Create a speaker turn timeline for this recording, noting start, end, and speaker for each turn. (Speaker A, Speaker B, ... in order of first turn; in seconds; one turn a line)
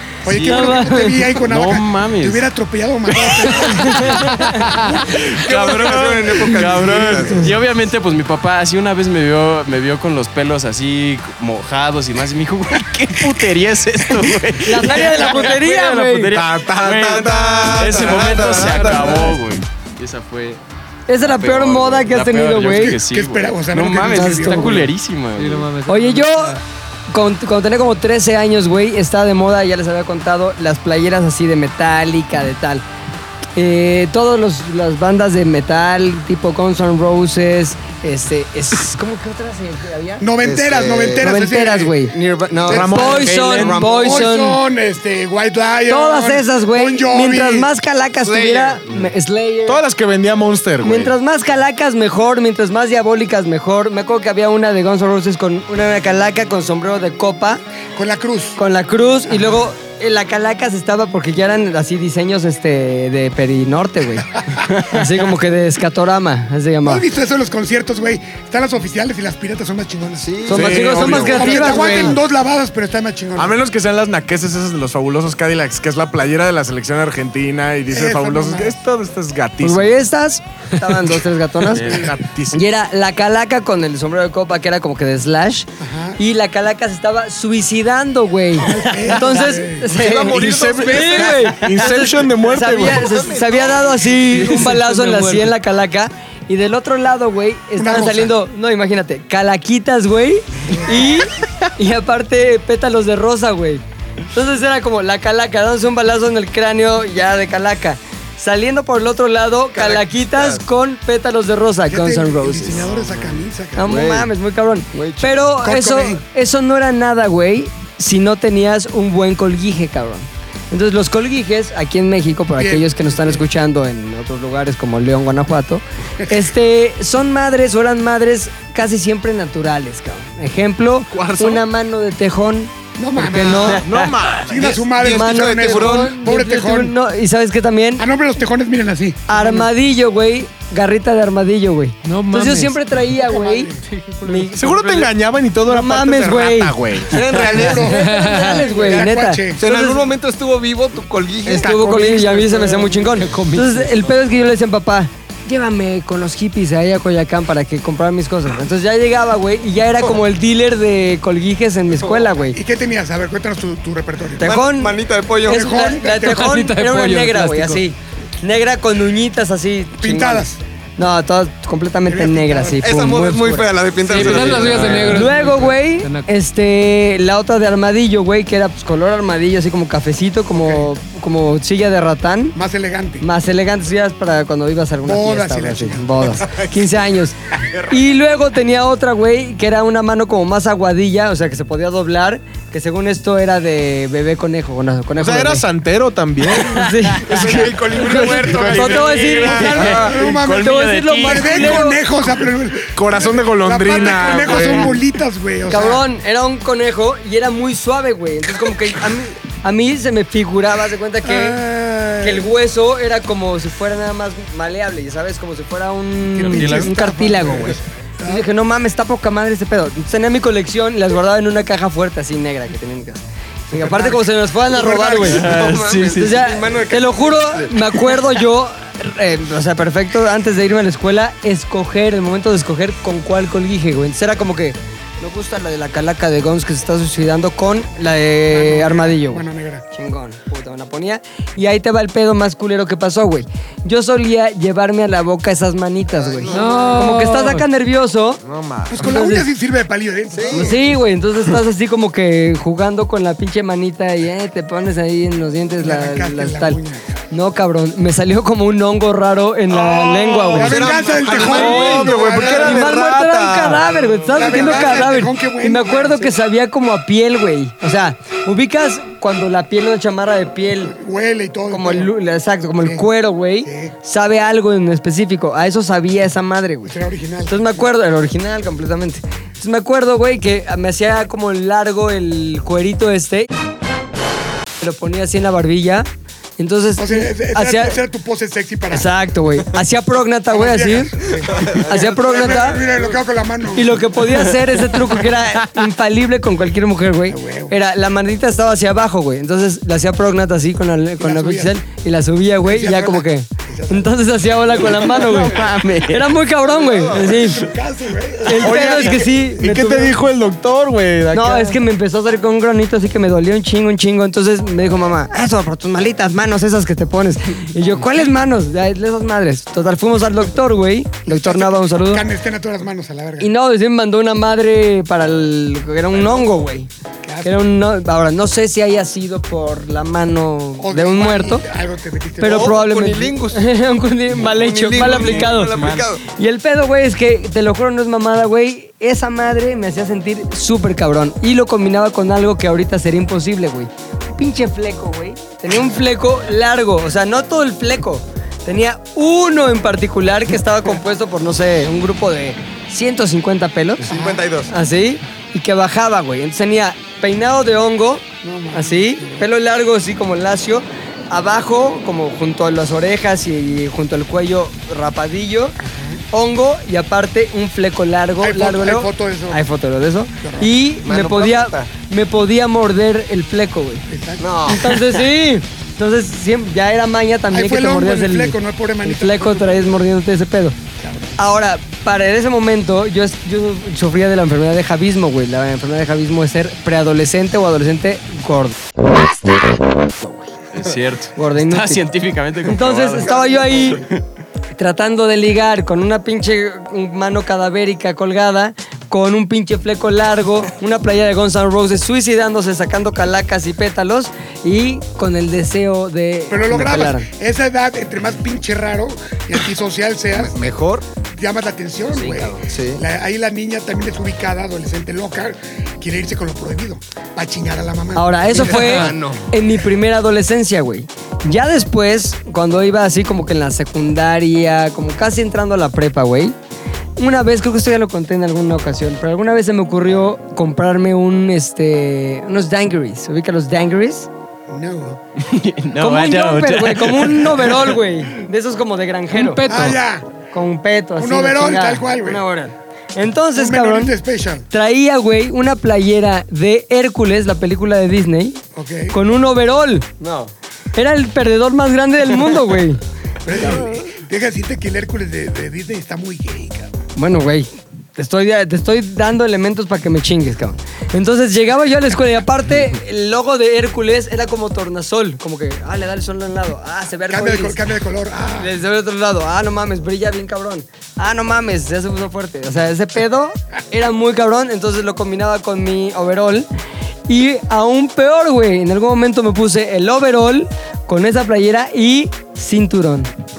Speaker A: 0.2-6.1
Speaker B: 0.3-0.8
Speaker C: 0.4-1.2
Speaker B: 1.4-2.4
Speaker C: 3.7-4.6
Speaker B: 5.1-20.6
Speaker D: 5.4-7.5
Speaker A: 6.6-7.0
Speaker C: 14.6-16.3
Speaker E: 16.3-19.4
Speaker D: 17.4-19.3
Speaker C: 21.1-23.0
Speaker B: 21.2-25.7
Speaker A: 22.8-24.9
Speaker C: 24.1-24.9
Speaker F: 25.4-26.6
Speaker C: 25.9-32.8
Speaker C: 33.5-40.2
Speaker A: 40.2-42.1
Speaker D: 40.4-41.4
Speaker C: 41.2-42.1
Speaker D: 42.1-44.3
Speaker E: 42.6-43.8
Speaker A: 42.7-47.7
Speaker C: 42.9-44.6
Speaker C: 45.9-49.8
Speaker D: 48.2-48.8
Speaker E: 49.7-51.1
Speaker C: 50.8-57.6
Speaker A: 58.0-58.6
Speaker C: 58.6-67.0
Speaker A: 59.3-59.6
Speaker A: 66.8-70.4
Speaker D: 70.2-72.2
Speaker C: 70.5-72.2
Speaker E: 70.5-71.6
Speaker A: 71.0-73.6
Speaker E: 73.4-80.0
Speaker A: 77.9-78.8
Speaker C: 79.6-112.9
Speaker E: 81.7-82.6
Speaker B: 81.7-82.1
Speaker A: 85.8-86.2
Speaker A: 88.5-89.9
Speaker D: 90.0-91.3
Speaker E: 90.1-93.3
Speaker D: 92.5-94.4
Speaker F: 94.2-95.5
Speaker A: 97.8-98.3
Speaker D: 109.7-110.6
Speaker A: 111.9-113.9
Speaker B: 112.8-113.3
Speaker C: 113.7-134.1
Speaker D: 113.8-114.3
Speaker D: 114.9-115.5
Speaker A: 115.6-116.2
Speaker A: 122.5-123.4
Speaker A: 126.2-126.5
Speaker E: 131.1-131.6
Speaker A: 133.0-133.8
Speaker D: 133.2-133.8
Speaker E: 133.4-134.8
Speaker A: 134.4-136.9
Speaker D: 134.6-136.2
Speaker C: 135.0-138.1
Speaker A: 138.0-139.7
Speaker C: 139.3-143.7
Speaker F: 142.0-142.8
Speaker A: 143.1-143.8
Speaker F: 143.8-144.5
Speaker C: 144.2-145.1
Speaker E: 144.6-147.2
Speaker C: 145.7-146.8
Speaker A: 147.1-149.6
Speaker D: 147.1-147.8
Speaker C: 147.6-150.1
Speaker F: 147.7-149.1
Speaker D: 149.6-151.8
Speaker C: 151.4-162.6
Speaker F: 151.7-154.0
Speaker D: 161.9-162.2
Speaker A: 162.5-164.6
Speaker C: 164.4-173.7
Speaker D: 164.4-165.9
Speaker A: 165.5-166.6
Speaker F: 166.2-167.8
Speaker A: 170.0-170.6
Speaker A: 172.1-172.9
Speaker D: 172.8-175.2
Speaker F: 174.0-176.3
Speaker C: 174.9-182.6
Speaker A: 180.5-180.9
Speaker A: 182.6-183.2
Speaker C: 183.2-187.4
Speaker A: 185.0-186.4
Speaker C: 187.9-195.6
Speaker E: 195.2-200.1
Speaker C: 196.5-202.0
Speaker B: 198.4-201.9
Speaker A: 199.4-206.1
Speaker E: 202.9-205.0
Speaker C: 205.7-211.6
Speaker A: 211.2-212.5
Speaker C: 212.2-225.5
Speaker A: 216.3-218.5
Speaker B: 216.4-217.0
Speaker D: 223.8-224.1
Speaker A: 223.8-224.1
Speaker D: 224.6-227.7
Speaker B: 225.2-226.4
Speaker C: 226.1-248.4
Speaker A: 238.5-239.8
Speaker D: 246.1-247.2
Speaker F: 246.5-247.6
Speaker E: 248.4-248.9
Speaker A: 248.9-250.8
Speaker C: 249.0-249.5
Speaker D: 250.3-250.9
Speaker C: 250.5-256.8
Speaker A: 255.8-257.1
Speaker C: 257.3-270.9
Speaker E: 259.8-260.7
Speaker A: 260.4-262.9
Speaker D: 260.5-262.6
Speaker E: 261.2-264.9
Speaker A: 264.3-266.4
Speaker A: 270.8-272.1
Speaker C: 271.7-276.9
Speaker A: 272.8-273.1
Speaker A: 273.6-273.9
Speaker A: 276.9-277.9
Speaker C: 277.5-283.5
Speaker C: 284.8-286.1
Speaker C: 286.6-288.0
Speaker A: 287.0-289.1
Speaker C: 288.9-292.8
Speaker A: 290.5-294.3
Speaker D: 291.5-292.8
Speaker C: 293.7-307.6
Speaker A: 297.3-297.7
Speaker A: 301.2-301.8
Speaker A: 302.6-305.1
Speaker E: 305.2-305.7
Speaker B: 305.5-306.1
Speaker D: 306.6-307.5
Speaker A: 307.0-309.1
Speaker C: 308.4-310.2
Speaker E: 308.6-311.8
Speaker C: 311.3-322.2
Speaker A: 321.2-323.5
Speaker C: 323.4-326.9
Speaker A: 326.1-326.5
Speaker A: 327.2-327.7
Speaker C: 327.4-331.6
Speaker A: 330.8-332.8
Speaker C: 332.4-354.1
Speaker D: 332.4-333.7
Speaker D: 334.3-336.2
Speaker D: 354.0-354.7
Speaker A: 354.1-354.4
Speaker C: 354.7-365.8
Speaker A: 358.4-359.5
Speaker A: 365.8-366.2
Speaker C: 366.3-374.1
Speaker A: 368.4-369.6
Speaker A: 370.4-370.7
Speaker D: 371.0-371.9
Speaker A: 374.1-374.5
Speaker D: 374.4-375.0
Speaker C: 374.7-380.8
Speaker A: 377.5-380.0
Speaker A: 381.0-381.3
Speaker C: 381.4-388.8
Speaker C: 390.2-390.5
Speaker B: 390.7-393.4
Speaker C: 391.4-392.1
Speaker C: 392.6-394.0
Speaker D: 393.2-394.0
Speaker C: 394.7-407.3
Speaker A: 406.5-410.6
Speaker D: 410.3-411.1
Speaker A: 411.3-418.9
Speaker C: 412.1-412.6
Speaker D: 412.7-413.0
Speaker C: 418.1-426.6
Speaker D: 418.5-419.5
Speaker C: 427.2-434.3
Speaker A: 434.7-435.2
Speaker B: 435.4-437.9
Speaker C: 436.0-439.9
Speaker F: 439.3-440.0
Speaker A: 439.6-440.3
Speaker C: 440.5-444.1
Speaker A: 441.1-442.4
Speaker A: 443.6-444.6
Speaker C: 444.7-448.6
Speaker A: 448.7-449.1
Speaker C: 449.1-450.1
Speaker D: 450.2-450.5
Speaker C: 450.9-453.0
Speaker A: 453.4-456.9
Speaker C: 457.1-467.8
Speaker A: 467.3-468.7
Speaker C: 468.6-476.7
Speaker C: 477.3-483.3